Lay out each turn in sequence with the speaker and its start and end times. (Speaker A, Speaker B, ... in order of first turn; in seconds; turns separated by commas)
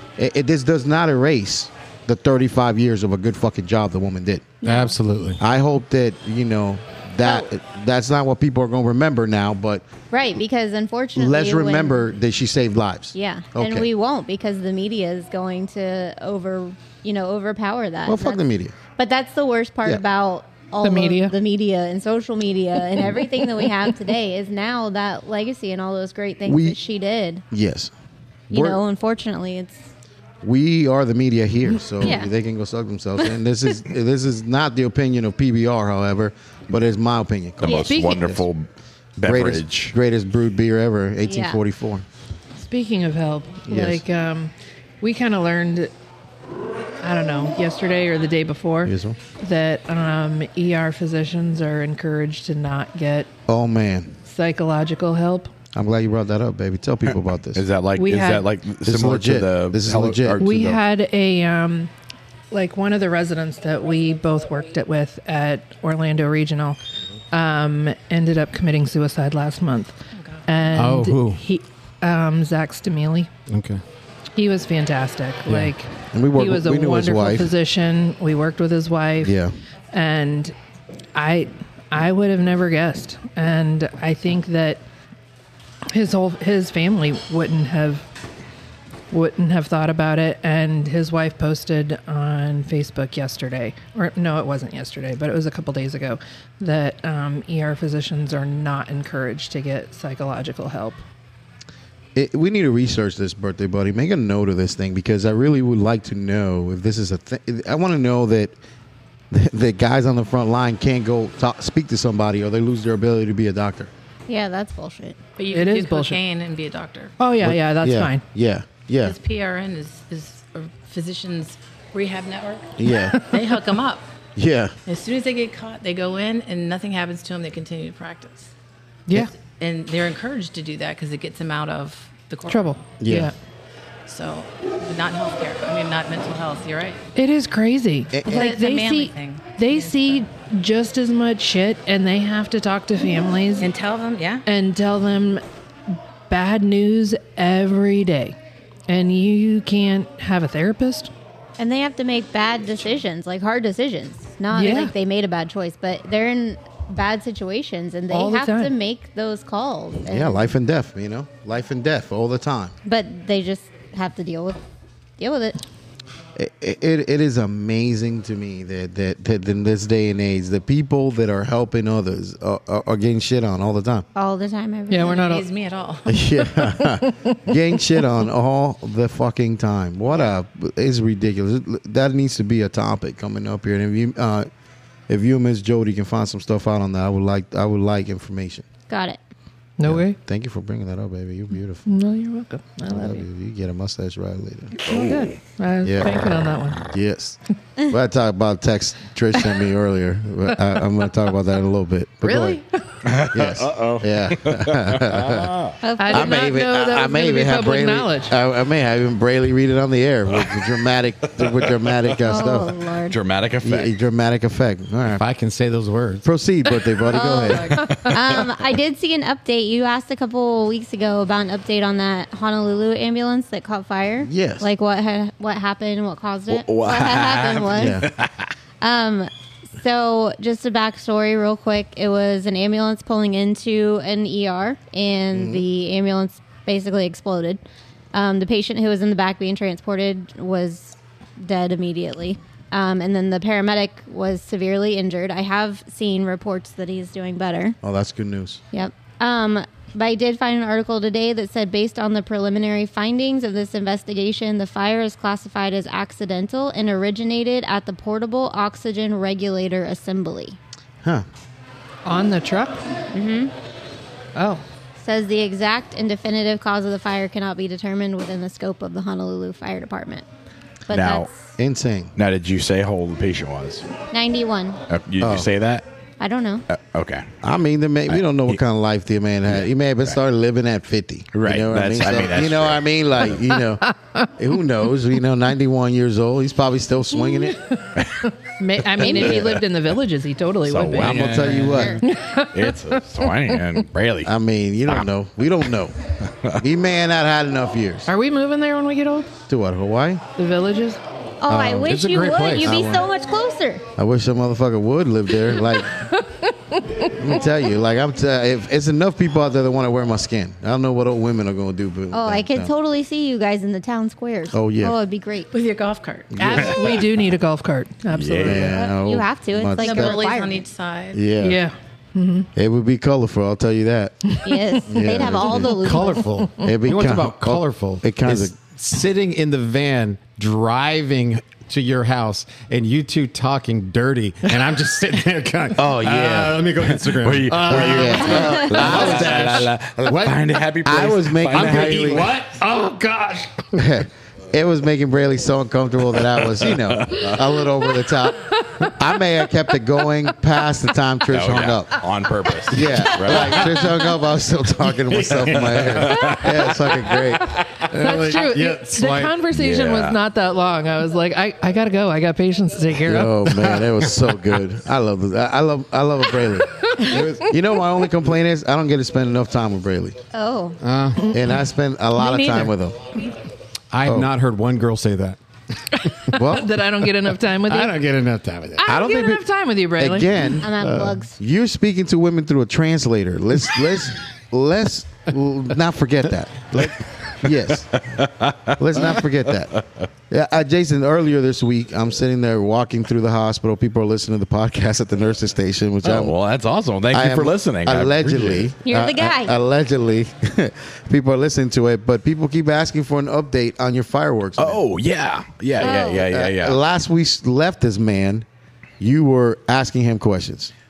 Speaker A: 0.2-4.6, Speaker B: 4.6-5.0, Speaker C: 4.6-5.4, Speaker A: 5.4-9.8, Speaker B: 7.2-7.5, Speaker B: 10.1-12.1, Speaker A: 11.2-13.9, Speaker B: 13.1-18.4, Speaker A: 18.1-18.8, Speaker B: 19.0-27.4, Speaker D: 20.8-21.4, Speaker A: 26.5-26.8, Speaker A: 27.5-27.9, Speaker A: 28.5-28.8, Speaker B: 28.5-29.9, Speaker A: 30.4-38.5, Speaker B: 32.0-32.3, Speaker E: 37.6-38.7, Speaker D: 37.8-38.2, Speaker E: 39.2-40.0, Speaker A: 39.2-42.0, Speaker B: 41.3-41.6, Speaker D: 42.6-45.9, Speaker A: 43.7-44.0, Speaker D: 47.0-53.3, Speaker A: 48.9-49.2, Speaker A: 53.5-54.2, Speaker D: 54.3-55.5, Speaker A: 55.8-57.6, Speaker E: 57.5-60.8, Speaker D: 58.0-58.5, Speaker A: 58.8-60.6, Speaker D: 60.4-61.9, Speaker D: 62.5-66.8, Speaker D: 67.3-73.3, Speaker F: 70.1-70.5, Speaker C: 70.7-71.4, Speaker C: 73.5-73.8, Speaker D: 74.4-79.4, Speaker A: 76.1-77.5, Speaker A: 79.2-79.5, Speaker D: 79.9-80.5, Speaker D: 81.2-84.8, Speaker D: 85.9-88.1, Speaker D: 89.1-101.0, Speaker A: 102.2-108.5, Speaker A: 109.3-113.9, Speaker B: 114.3-115.2, Speaker F: 115.4-117.1, Speaker D: 115.5-116.2, Speaker D: 117.2-118.2, Speaker A: 117.4-119.2, Speaker F: 119.0-122.7, Speaker A: 122.8-123.2, Speaker D: 123.1-123.5, Speaker F: 123.3-124.1, Speaker A: 124.4-124.8, Speaker F: 124.9-128.5, Speaker D: 129.1-129.3, Speaker F: 129.1-132.8, Speaker D: 132.5-133.3, Speaker A: 133.0-133.3, Speaker F: 134.1-137.0, Speaker D: 137.2-143.7, Speaker A: 138.1-138.6, Speaker F: 138.2-140.2, Speaker F: 143.6-144.4, Speaker D: 144.5-148.4, Speaker D: 148.9-151.1, Speaker B: 151.6-160.5, Speaker D: 154.5-154.9, Speaker D: 158.1-158.7, Speaker A: 160.1-162.8, Speaker B: 162.8-164.6, Speaker B: 165.2-165.6, Speaker A: 166.4-174.1, Speaker B: 174.2-175.3, Speaker D: 174.9-175.5, Speaker F: 175.0-176.2, Speaker A: 176.1-184.5, Speaker D: 176.6-177.4, Speaker A: 185.1-188.7, Speaker B: 188.9-189.2, Speaker D: 189.8-190.2, Speaker A: 189.8-191.9, Speaker D: 191.9-193.2, Speaker A: 192.9-194.7, Speaker D: 194.7-196.9, Speaker E: 194.8-195.4, Speaker A: 195.8-196.2, Speaker A: 196.9-202.6, Speaker D: 200.6-200.8, Speaker D: 202.2-203.0, Speaker E: 203.0-205.8, Speaker A: 203.3-205.5, Speaker B: 205.8-206.5, Speaker D: 206.0-208.3, Speaker A: 206.1-212.8, Speaker E: 211.4-212.1, Speaker B: 212.3-213.2, Speaker E: 213.1-213.9, Speaker A: 213.6-215.2, Speaker C: 215.1-216.3, Speaker A: 216.2-217.8, Speaker B: 217.1-228.0, Speaker D: 217.4-217.8, Speaker E: 217.8-218.4, Speaker A: 224.2-224.7, Speaker E: 226.5-228.4, Speaker A: 227.7-228.1, Speaker B: 228.8-237.6, Speaker A: 235.3-235.6, Speaker B: 238.1-247.8, Speaker A: 247.8-248.6, Speaker B: 248.7-260.6, Speaker D: 262.1-262.8, Speaker B: 263.1-263.5, Speaker D: 264.4-264.6, Speaker B: 265.0-270.3, Speaker B: 270.9-271.4, Speaker E: 270.9-271.3, Speaker A: 271.6-272.1, Speaker E: 272.2-273.9, Speaker B: 274.1-274.8, Speaker E: 274.9-275.9, Speaker A: 275.2-275.5, Speaker B: 276.2-276.6, Speaker E: 276.7-277.3, Speaker A: 277.4-287.6, Speaker E: 278.1-278.6, Speaker E: 279.5-280.2, Speaker E: 281.3-283.3, Speaker D: 283.8-284.3, Speaker E: 288.0-288.3, Speaker D: 288.6-293.6, Speaker A: 289.0-289.6, Speaker E: 289.0-289.6, Speaker E: 290.7-294.3, Speaker A: 291.0-292.0, Speaker B: 291.7-292.0, Speaker A: 294.2-295.9, Speaker E: 296.2-296.6, Speaker A: 296.5-298.1, Speaker D: 298.1-299.3, Speaker A: 299.5-300.2, Speaker D: 300.4-301.0, Speaker B: 301.4-303.8, Speaker A: 301.5-302.0, Speaker C: 301.8-303.0, Speaker A: 302.6-303.1, Speaker A: 304.0-306.1, Speaker D: 305.9-307.4, Speaker A: 307.0-312.7, Speaker B: 312.1-315.5, Speaker A: 314.5-314.9, Speaker F: 315.5-317.0, Speaker A: 316.3-316.8, Speaker D: 316.4-318.8, Speaker E: 318.1-318.7, Speaker A: 318.4-320.2, Speaker B: 318.7-320.6, Speaker F: 319.8-321.2, Speaker A: 321.1-321.6, Speaker D: 321.4-322.5, Speaker A: 322.6-326.0, Speaker D: 324.3-324.8, Speaker B: 324.4-326.2, Speaker C: 325.4-340.4, Speaker A: 326.6-328.6, Speaker A: 335.7-336.7, Speaker E: 336.9-342.3, Speaker A: 337.6-340.3, Speaker A: 340.8-342.3, Speaker C: 341.5-343.8, Speaker A: 343.8-352.1, Speaker E: 346.5-347.6, Speaker E: 351.3-353.9, Speaker A: 352.7-358.4, Speaker C: 355.1-356.6, Speaker E: 355.3-357.8, Speaker D: 357.5-363.9, Speaker C: 357.8-359.4, Speaker E: 359.5-360.2, Speaker A: 363.0-370.2, Speaker D: 366.4-367.5, Speaker B: 370.3-370.8, Speaker C: 370.8-371.4, Speaker A: 371.3-373.1, Speaker B: 372.2-372.7, Speaker C: 373.9-375.4, Speaker A: 374.1-374.3, Speaker D: 376.0-378.0, Speaker A: 376.3-376.7, Speaker C: 377.7-378.9, Speaker D: 378.8-380.6, Speaker A: 378.9-379.4, Speaker A: 380.0-388.0, Speaker B: 380.6-381.4, Speaker E: 387.9-389.2, Speaker A: 388.8-389.8, Speaker A: 390.3-396.4, Speaker E: 396.0-398.7, Speaker A: 397.1-404.8, Speaker B: 398.9-399.6, Speaker E: 404.6-406.8, Speaker A: 405.8-408.5, Speaker B: 405.8-406.2, Speaker A: 409.0-410.7